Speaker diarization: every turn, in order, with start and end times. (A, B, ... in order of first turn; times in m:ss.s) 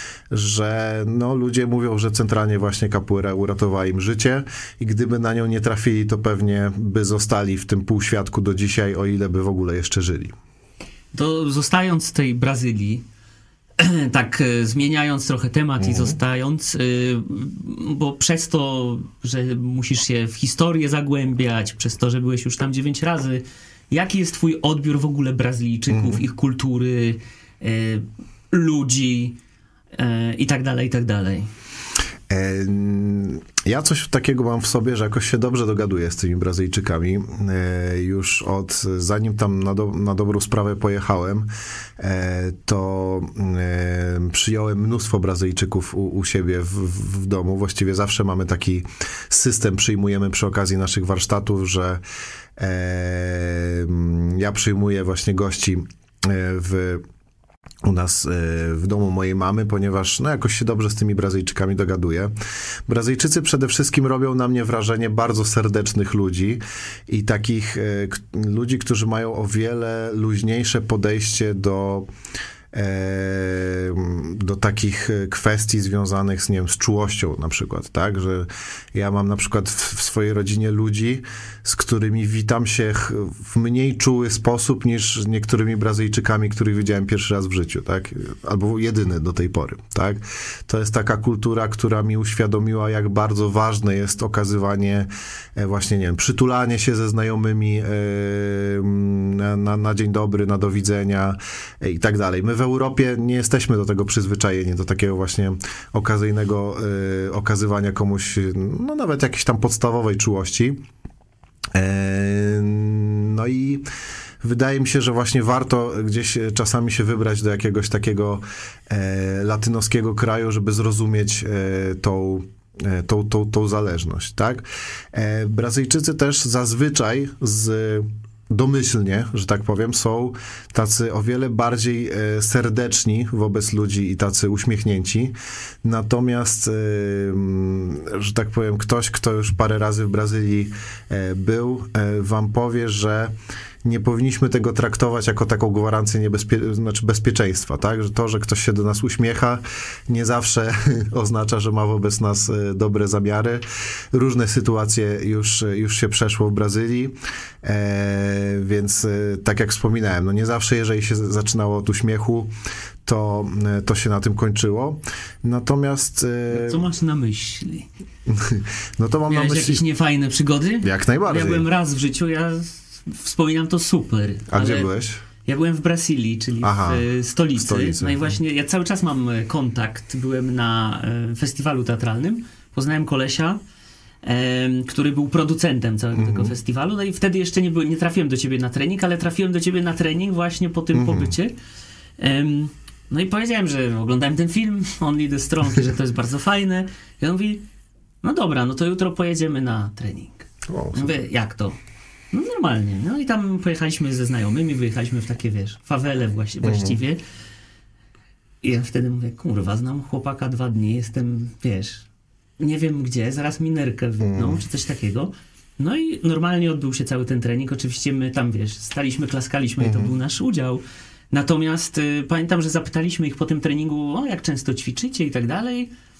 0:00.3-0:10.3 A
0:11.1-0:13.0 B
0:13.8-0:29.4 B
0:15.8-0:16.2 A
0:25.9-0:26.2 A
0:29.9-0:31.5 B
0:32.3-0:52.0 A
0:52.6-0:57.0 A
0:57.8-1:02.3 A
1:02.9-1:12.1 A
1:12.7-1:50.8 A
1:51.7-1:53.9 A
1:54.4-2:42.5 A
2:43.0-2:46.9 A
2:46.5-2:47.9 B
2:48.3-2:49.8 A
2:49.3-2:54.9 B
2:50.8-2:51.7 A
2:54.5-2:55.2 A
2:55.4-3:03.6 B
2:56.6-2:58.4 A
3:04.2-3:11.5 B
3:06.1-3:06.5 A
3:10.9-3:11.3 A
3:12.2-3:17.6 B
3:18.2-3:21.8 B
3:20.7-3:21.2 A
3:22.3-3:27.2 B
3:26.6-3:27.0 A
3:28.6-3:32.0 B
3:32.6-3:45.9 B
3:34.2-3:34.6 A
3:39.8-3:40.1 A